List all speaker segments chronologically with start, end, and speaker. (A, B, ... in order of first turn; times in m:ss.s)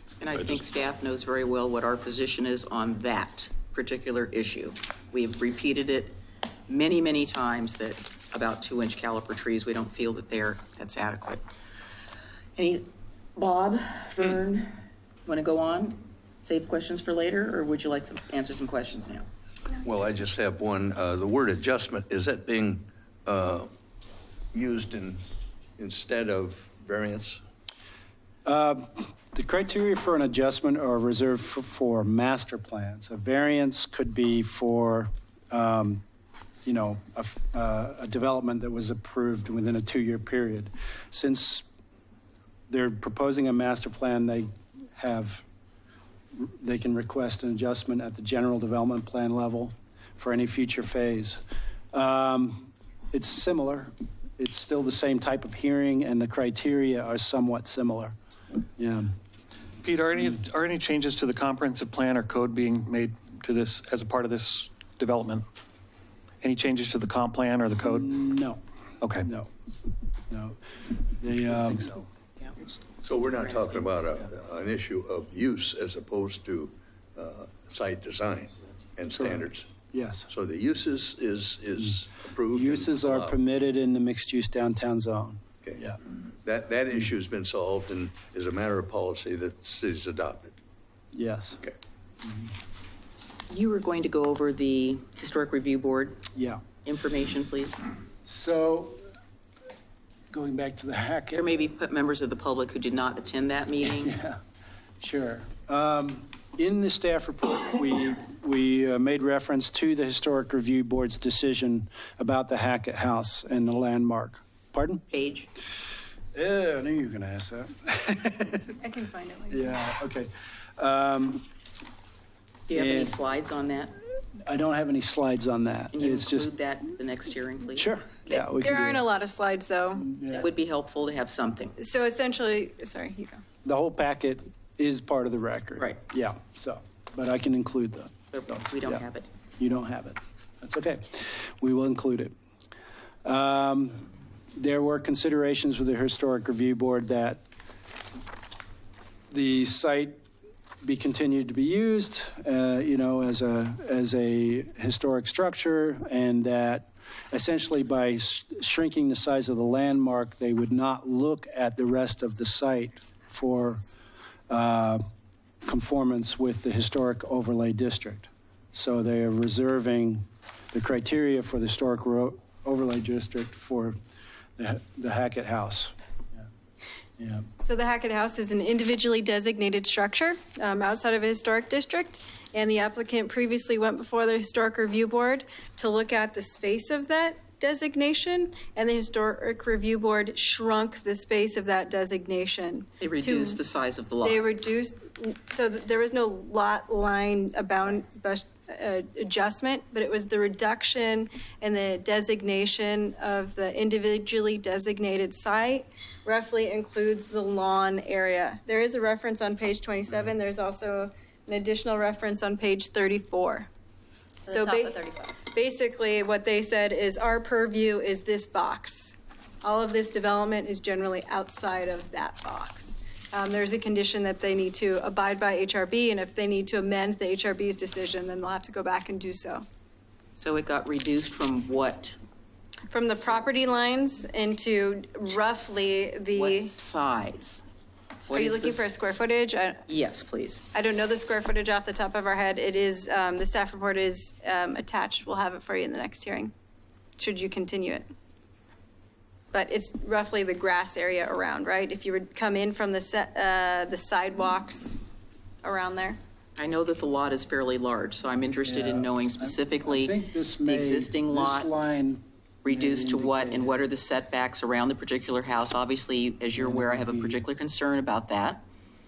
0:00.2-0:06.1 A
0:06.7-0:11.4 A
0:12.6-0:14.7 A
0:15.2-0:19.2 A
0:19.8-0:23.7 B
0:24.5-0:25.2 B
0:25.8-0:27.4 B
0:28.4-0:36.0 C
0:36.6-0:41.6 C
0:42.7-0:45.4 C
0:46.3-0:51.4 C
0:51.9-0:58.1 C
0:58.8-0:59.1 C
0:59.8-1:05.4 D
1:06.4-1:08.1 D
1:07.9-1:08.6 C
1:09.0-1:09.3 D
1:09.1-1:09.5 C
1:10.3-1:10.6 C
1:11.2-1:12.0 C
1:13.0-1:19.7 B
1:13.3-1:14.0 A
1:19.1-1:20.3 C
1:20.3-1:23.4 B
1:22.5-1:26.0 C
1:26.4-1:30.5 B
1:31.1-1:31.6 C
1:33.5-1:36.2 A
1:36.3-1:36.6 C
1:36.8-1:37.8 A
1:38.2-1:39.0 C
1:40.3-1:41.4 C
1:41.3-1:44.1 A
1:43.8-1:44.4 C
1:45.0-1:55.0 C
1:55.1-1:55.5 A
1:56.3-1:58.8 C
1:58.8-1:59.7 E
1:59.5-2:01.4 C
2:02.7-2:04.0 A
2:02.7-2:03.2 C
2:04.4-2:06.5 C
2:05.9-2:07.9 A
2:07.8-2:09.0 C
2:08.3-2:10.1 E
2:10.0-2:10.4 C
2:10.3-2:11.8 A
2:11.8-2:13.4 E
2:13.6-2:19.0 C
2:18.3-2:19.3 A
2:19.6-2:22.3 C
2:23.2-2:27.4 C
2:29.3-2:30.2 C
2:30.8-2:43.9 C
2:44.5-2:45.0 C
2:45.6-2:54.0 C
2:54.6-2:55.9 C
2:57.2-2:57.5 C
2:57.6-3:13.6 E
3:13.0-3:14.4 A
3:14.2-3:33.7 E
3:34.5-3:49.6 E
3:50.4-3:52.2 A
3:52.9-3:56.7 E
3:56.4-3:57.6 A
3:58.3-3:58.8 A
3:58.3-3:59.8 E
3:59.9-4:00.6 A
4:00.7-4:06.5 E
4:07.2-4:08.0 E
4:09.5-4:15.0 E
4:15.6-4:16.2 E
4:16.6-4:21.7 A
4:18.6-4:23.8 C
4:22.6-4:28.6 A
4:26.6-4:27.4 C